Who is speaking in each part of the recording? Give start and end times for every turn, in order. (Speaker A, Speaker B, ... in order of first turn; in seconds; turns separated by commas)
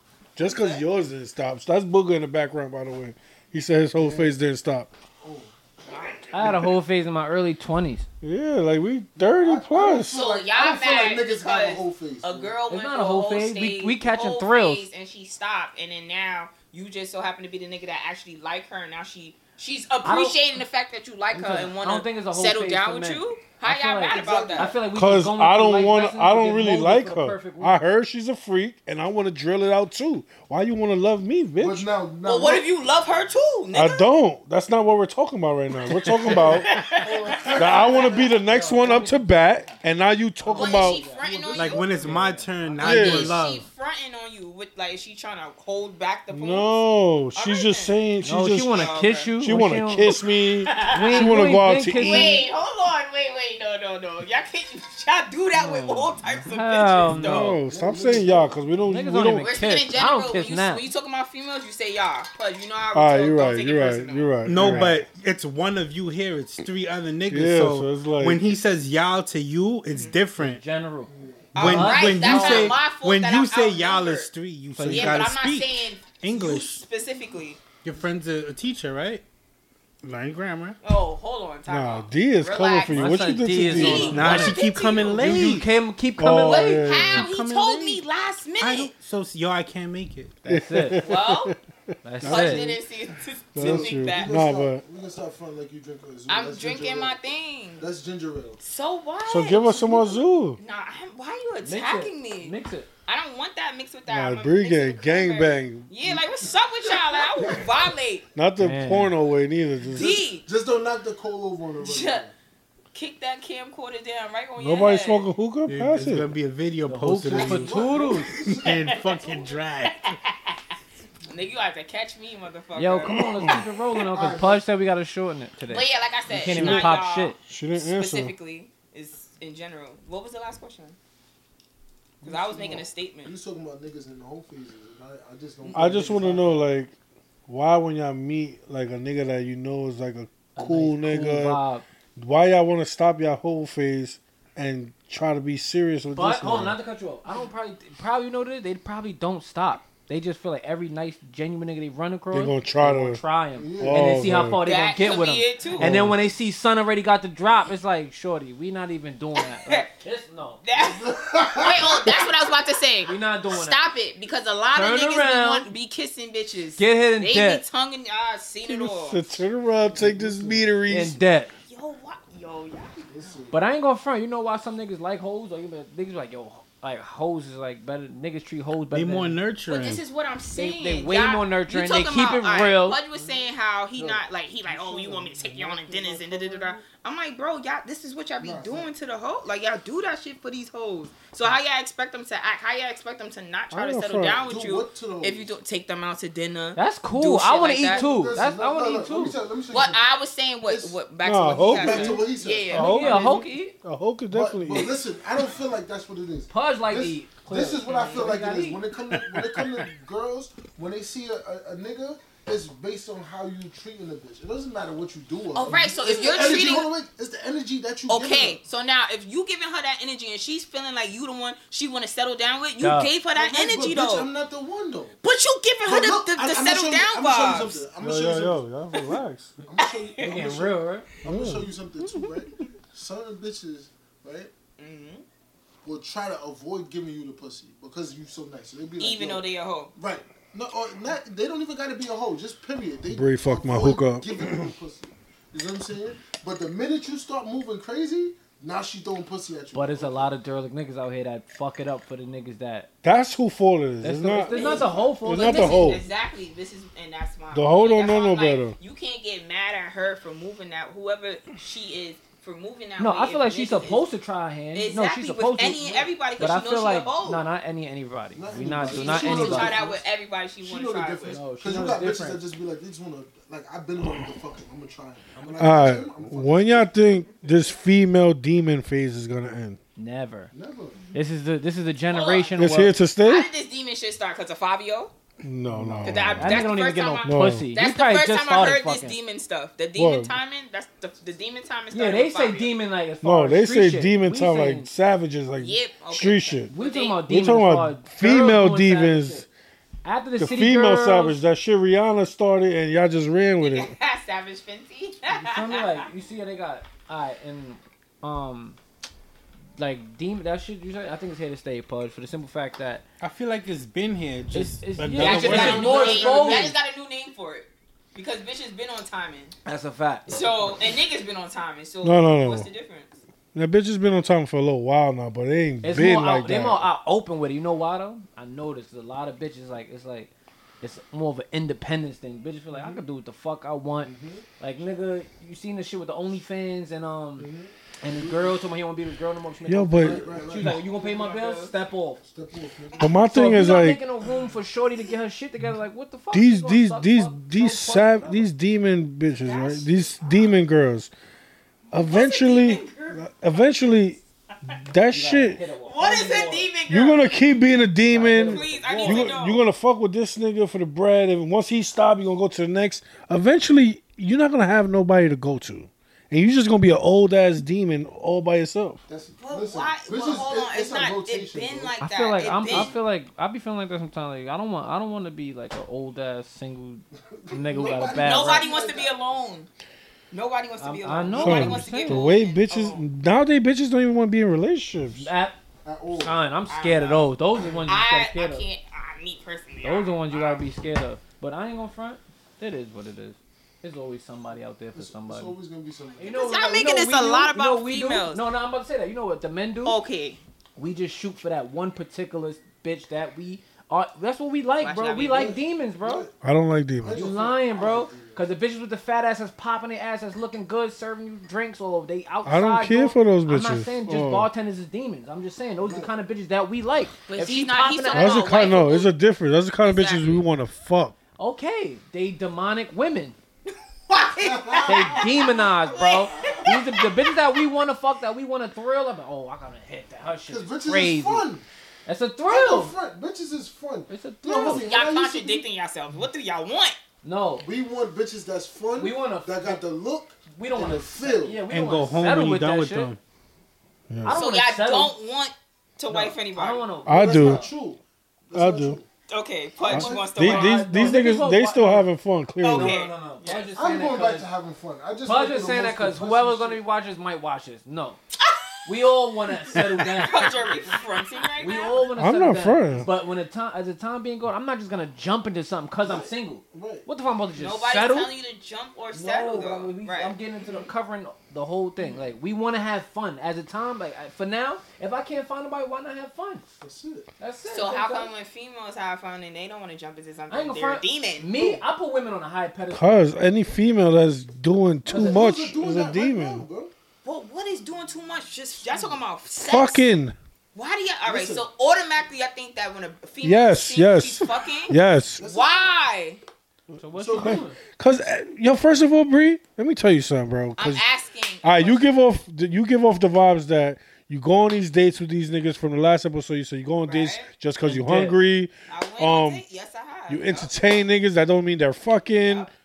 Speaker A: 0.3-4.9, Speaker B: 0.4-0.8, Speaker C: 4.0-4.3, Speaker C: 5.2-6.7, Speaker B: 5.9-6.2, Speaker D: 6.3-8.1, Speaker A: 8.2-10.2, Speaker C: 9.2-12.6, Speaker B: 10.1-24.7, Speaker D: 12.7-14.9, Speaker D: 20.0-20.4, Speaker D: 21.3-27.8, Speaker C: 24.1-24.8, Speaker A: 24.9-31.9, Speaker C: 31.6-32.7, Speaker B: 32.2-34.1, Speaker A: 33.7-36.7, Speaker B: 36.3-37.8, Speaker D: 36.3-39.3, Speaker C: 37.0-39.0, Speaker A: 37.5-41.0, Speaker D: 40.5-41.2, Speaker C: 40.5-42.2, Speaker B: 40.5-41.9, Speaker E: 41.5-43.7, Speaker D: 41.8-42.9, Speaker B: 42.8-48.0, Speaker A: 42.8-43.4, Speaker A: 46.3-52.4, Speaker D: 48.2-50.1, Speaker B: 48.7-49.3, Speaker B: 50.6-51.4, Speaker D: 50.9-52.4, Speaker B: 52.0-57.6, Speaker D: 55.5-57.6, Speaker A: 57.1-59.5, Speaker C: 57.6-58.6, Speaker D: 58.8-60.8, Speaker B: 59.4-64.4, Speaker A: 62.9-65.0, Speaker E: 64.4-70.6, Speaker D: 64.6-64.9, Speaker A: 67.3-68.4, Speaker B: 69.9-70.2, Speaker D: 70.4-72.8, Speaker C: 71.1-71.5, Speaker B: 71.5-74.3, Speaker E: 71.5-76.8, Speaker D: 74.7-75.2, Speaker B: 74.8-77.6, Speaker E: 77.8-79.2, Speaker E: 80.0-80.8, Speaker B: 80.8-85.5, Speaker A: 81.7-84.3, Speaker D: 82.9-86.9, Speaker E: 84.1-85.7, Speaker A: 86.2-87.3, Speaker B: 86.3-88.9, Speaker E: 87.0-88.0, Speaker E: 88.6-90.4, Speaker D: 90.4-91.1, Speaker A: 90.5-91.6, Speaker B: 91.0-91.5, Speaker D: 92.0-92.8, Speaker A: 92.2-92.8, Speaker B: 92.2-94.3, Speaker A: 93.5-94.8, Speaker C: 93.6-97.2, Speaker B: 96.3-97.8, Speaker C: 97.8-98.6, Speaker B: 98.6-102.5, Speaker A: 99.2-100.6, Speaker D: 101.6-102.9, Speaker B: 103.1-108.2, Speaker A: 104.1-105.9, Speaker C: 106.8-107.7, Speaker A: 108.3-110.2, Speaker D: 108.6-109.1, Speaker B: 109.9-110.5, Speaker C: 109.9-112.3, Speaker B: 111.8-112.3, Speaker B: 112.9-115.3, Speaker A: 114.6-116.3, Speaker E: 115.7-120.2, Speaker D: 116.9-118.3, Speaker C: 117.2-119.0, Speaker B: 118.7-119.3, Speaker B: 120.0-120.6, Speaker B: 121.2-123.3, Speaker D: 122.7-127.3, Speaker A: 123.1-123.6, Speaker C: 124.1-124.6, Speaker B: 125.7-131.0, Speaker A: 126.4-126.9, Speaker A: 127.5-128.3, Speaker C: 132.2-136.6, Speaker B: 132.2-133.3, Speaker A: 135.7-136.9, Speaker A: 137.5-141.6, Speaker D: 140.6-141.8, Speaker A: 142.2-146.8, Speaker D: 146.1-160.6, Speaker A: 152.3-153.2, Speaker C: 153.6-154.3, Speaker A: 153.8-154.6, Speaker B: 154.6-156.0, Speaker A: 155.8-156.2, Speaker B: 159.4-159.9, Speaker B: 160.6-169.3, Speaker C: 160.7-162.3, Speaker D: 163.0-163.9, Speaker D: 164.7-165.7, Speaker D: 166.8-167.6, Speaker A: 168.6-171.2, Speaker C: 169.9-170.6, Speaker D: 170.9-171.5, Speaker B: 171.7-173.0, Speaker C: 173.1-173.6, Speaker D: 173.5-179.4, Speaker E: 178.9-180.0, Speaker B: 179.7-198.1, Speaker D: 180.6-183.0, Speaker C: 183.1-183.4, Speaker C: 184.0-186.8, Speaker C: 188.4-188.9, Speaker A: 193.7-194.5, Speaker C: 194.5-195.5, Speaker D: 196.8-199.3, Speaker C: 197.8-200.1, Speaker B: 199.7-203.4, Speaker C: 200.7-201.0, Speaker A: 201.2-202.2, Speaker C: 201.6-202.8, Speaker A: 202.7-204.9, Speaker D: 202.7-203.7, Speaker C: 204.3-218.6, Speaker D: 206.5-208.8, Speaker B: 207.8-208.3, Speaker B: 215.5-216.9, Speaker B: 218.1-224.3, Speaker D: 222.8-223.1, Speaker C: 223.3-225.2, Speaker B: 225.2-227.8, Speaker C: 225.8-228.6, Speaker A: 228.0-229.6, Speaker C: 229.6-234.5, Speaker B: 229.8-230.4, Speaker D: 230.2-231.1, Speaker A: 231.2-231.7, Speaker B: 234.8-235.2, Speaker C: 235.8-239.4, Speaker B: 239.0-239.9, Speaker C: 239.9-250.3, Speaker A: 243.1-244.7, Speaker D: 249.7-252.9, Speaker A: 253.0-254.6, Speaker D: 254.0-255.9, Speaker B: 254.5-264.1, Speaker C: 254.5-255.9, Speaker A: 255.2-256.0, Speaker A: 257.5-258.7, Speaker D: 263.0-269.8, Speaker B: 264.7-267.4, Speaker C: 268.3-270.0, Speaker B: 268.9-271.4, Speaker C: 270.6-276.9, Speaker D: 271.3-272.4, Speaker D: 275.3-275.6, Speaker A: 275.6-279.8, Speaker D: 280.0-280.5, Speaker C: 280.5-281.0, Speaker D: 281.1-282.9, Speaker B: 282.1-282.5, Speaker A: 282.6-283.5, Speaker B: 283.2-285.1, Speaker A: 285.4-286.6, Speaker D: 285.7-289.1, Speaker C: 285.9-286.2, Speaker B: 286.0-292.7, Speaker A: 287.2-287.7, Speaker A: 289.9-290.4, Speaker D: 291.9-294.9, Speaker A: 293.2-296.7, Speaker B: 295.6-297.2, Speaker D: 296.7-299.4, Speaker A: 297.3-299.4, Speaker D: 300.0-301.4, Speaker A: 300.4-303.9, Speaker B: 303.6-306.1, Speaker D: 305.3-308.8, Speaker D: 309.8-313.0, Speaker E: 313.2-316.0, Speaker D: 314.5-316.7, Speaker B: 315.2-319.5, Speaker C: 315.2-316.8, Speaker D: 319.6-320.5, Speaker B: 320.3-323.2, Speaker A: 322.0-322.7, Speaker A: 323.5-326.9, Speaker D: 325.8-337.5, Speaker C: 334.0-334.4, Speaker C: 337.4-338.6, Speaker D: 338.0-342.2, Speaker A: 339.6-340.3, Speaker C: 340.0-340.9, Speaker B: 340.6-341.7, Speaker C: 342.2-343.1, Speaker A: 343.0-344.0, Speaker D: 343.2-348.4, Speaker A: 346.3-351.1, Speaker B: 349.4-350.5, Speaker A: 351.9-355.6, Speaker B: 352.0-353.2, Speaker D: 355.1-356.7, Speaker B: 355.8-357.3, Speaker A: 356.9-369.0, Speaker D: 358.1-359.3, Speaker B: 358.3-359.6, Speaker C: 358.5-359.3, Speaker C: 369.1-371.9, Speaker B: 369.5-372.9, Speaker D: 372.0-378.7, Speaker C: 372.6-373.0, Speaker C: 377.3-379.1, Speaker B: 378.1-379.7, Speaker B: 380.3-383.0, Speaker D: 380.8-382.2, Speaker A: 381.3-385.3, Speaker D: 385.1-385.6, Speaker C: 385.8-386.4, Speaker D: 386.1-388.7, Speaker B: 386.7-387.3, Speaker B: 387.9-390.6, Speaker D: 389.8-395.6, Speaker C: 394.9-396.4, Speaker D: 396.2-400.0, Speaker B: 396.2-398.4, Speaker B: 399.8-400.4, Speaker D: 400.8-406.2, Speaker B: 404.8-405.6, Speaker C: 405.3-406.3, Speaker A: 406.4-407.2, Speaker C: 407.0-408.5, Speaker D: 407.1-418.5, Speaker A: 412.4-414.5, Speaker C: 415.8-416.1, Speaker B: 417.3-419.1, Speaker A: 418.1-421.1, Speaker B: 419.8-420.4, Speaker D: 421.4-423.4, Speaker B: 424.1-427.4, Speaker C: 424.4-425.4, Speaker D: 424.9-431.5, Speaker C: 426.3-426.8, Speaker C: 430.5-431.6, Speaker D: 432.1-432.9, Speaker C: 432.5-435.6, Speaker D: 434.1-434.9, Speaker B: 434.6-436.9, Speaker D: 437.2-437.6, Speaker C: 437.6-441.6, Speaker D: 439.0-439.8, Speaker D: 440.5-443.1, Speaker E: 441.7-443.2, Speaker A: 444.1-444.4, Speaker D: 444.2-445.1, Speaker B: 444.3-446.9, Speaker D: 446.1-447.7, Speaker A: 447.1-447.6, Speaker C: 447.1-449.1, Speaker A: 448.5-449.0, Speaker B: 449.3-450.8, Speaker C: 449.9-450.4, Speaker A: 449.9-453.0, Speaker D: 450.4-452.1, Speaker B: 452.6-453.7, Speaker D: 452.7-454.5, Speaker C: 453.7-456.8, Speaker D: 455.2-458.2, Speaker B: 458.4-458.7, Speaker D: 458.8-460.7, Speaker B: 460.2-462.0, Speaker C: 460.5-460.7, Speaker D: 461.6-468.3, Speaker A: 462.1-463.1, Speaker C: 466.0-467.1, Speaker B: 467.6-470.4, Speaker D: 469.1-476.6, Speaker C: 472.0-472.3, Speaker C: 476.8-477.3, Speaker D: 477.4-478.3, Speaker B: 477.7-481.5, Speaker D: 480.5-483.2, Speaker C: 481.5-481.8, Speaker A: 482.9-486.6, Speaker C: 485.1-486.9, Speaker D: 485.1-485.5, Speaker B: 487.2-490.1, Speaker A: 489.5-490.4, Speaker B: 490.7-496.4, Speaker C: 491.2-491.6, Speaker A: 493.4-495.4, Speaker C: 495.4-495.8, Speaker D: 496.9-497.8, Speaker C: 497.1-497.6, Speaker A: 497.3-501.1, Speaker B: 500.8-502.1, Speaker A: 501.6-509.6, Speaker B: 507.0-507.5, Speaker D: 507.8-508.4, Speaker B: 508.9-510.7, Speaker A: 510.3-512.7, Speaker B: 512.4-512.7